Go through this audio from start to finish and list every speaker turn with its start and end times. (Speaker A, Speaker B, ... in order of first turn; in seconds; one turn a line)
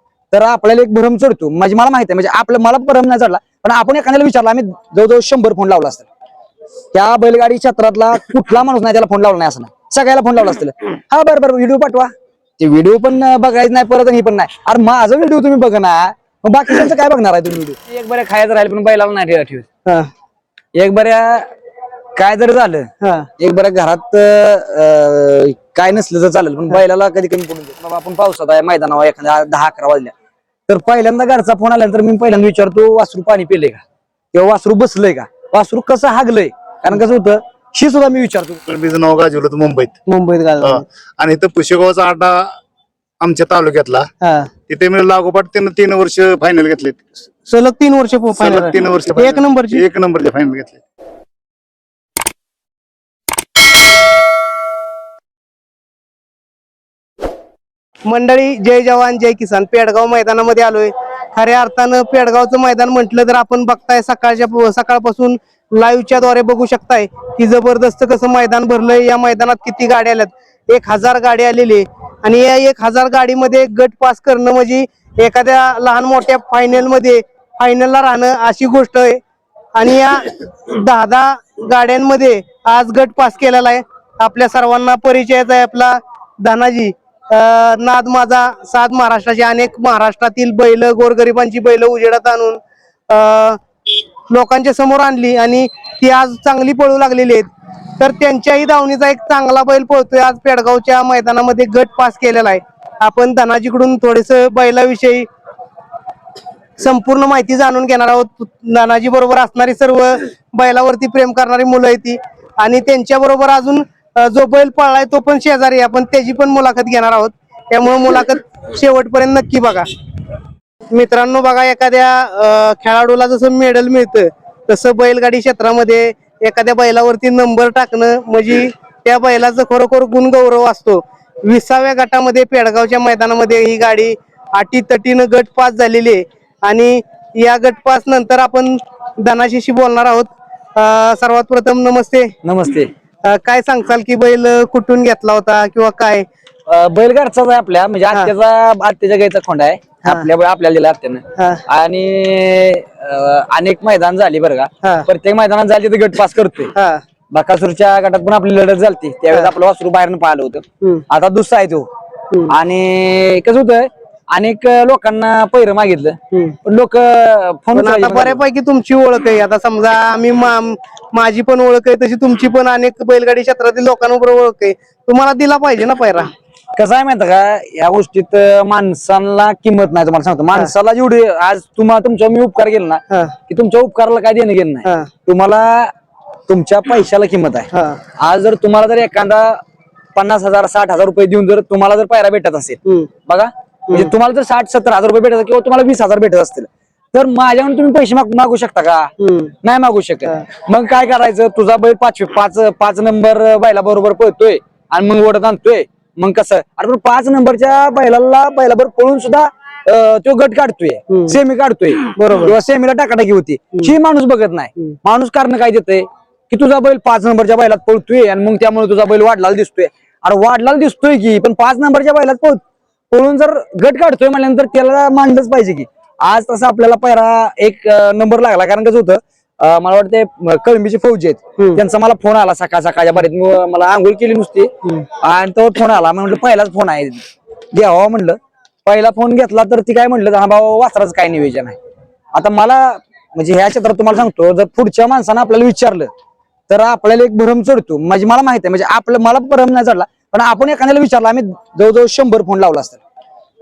Speaker A: 0.3-6.1
Speaker A: 6.9-19.7
Speaker A: 20.8-21.5
Speaker A: 22.2-30.1
Speaker B: 23.0-23.3
Speaker A: 30.7-33.8
Speaker A: 34.3-38.6
Speaker C: 38.7-40.0
Speaker B: 40.1-40.9
Speaker C: 40.6-42.6
Speaker C: 43.2-44.1
Speaker B: 44.2-44.5
Speaker C: 44.7-47.0
Speaker B: 47.5-49.8
Speaker C: 48.3-50.8
Speaker B: 58.1-79.2
Speaker B: 79.7-93.6
Speaker B: 94.3-105.3
Speaker B: 106.8-119.9
Speaker B: 120.9-142.3
Speaker A: 142.4-142.9
Speaker B: 143.2-146.3
Speaker A: 146.7-156.7
Speaker B: 151.4-151.6
Speaker B: 156.8-157.0
Speaker A: 157.3-161.9
Speaker A: 162.5-168.4
Speaker B: 166.3-166.6
Speaker B: 167.8-176.3
Speaker A: 176.8-185.9
Speaker B: 184.8-185.1
Speaker A: 186.5-189.6
Speaker B: 187.7-188.0
Speaker A: 190.2-199.1
Speaker B: 192.8-193.1
Speaker B: 199.2-199.5
Speaker A: 199.6-222.6
Speaker B: 211.1-211.4
Speaker B: 212.2-212.5
Speaker A: 223.1-241.8
Speaker A: 242.3-246.1
Speaker A: 246.7-253.0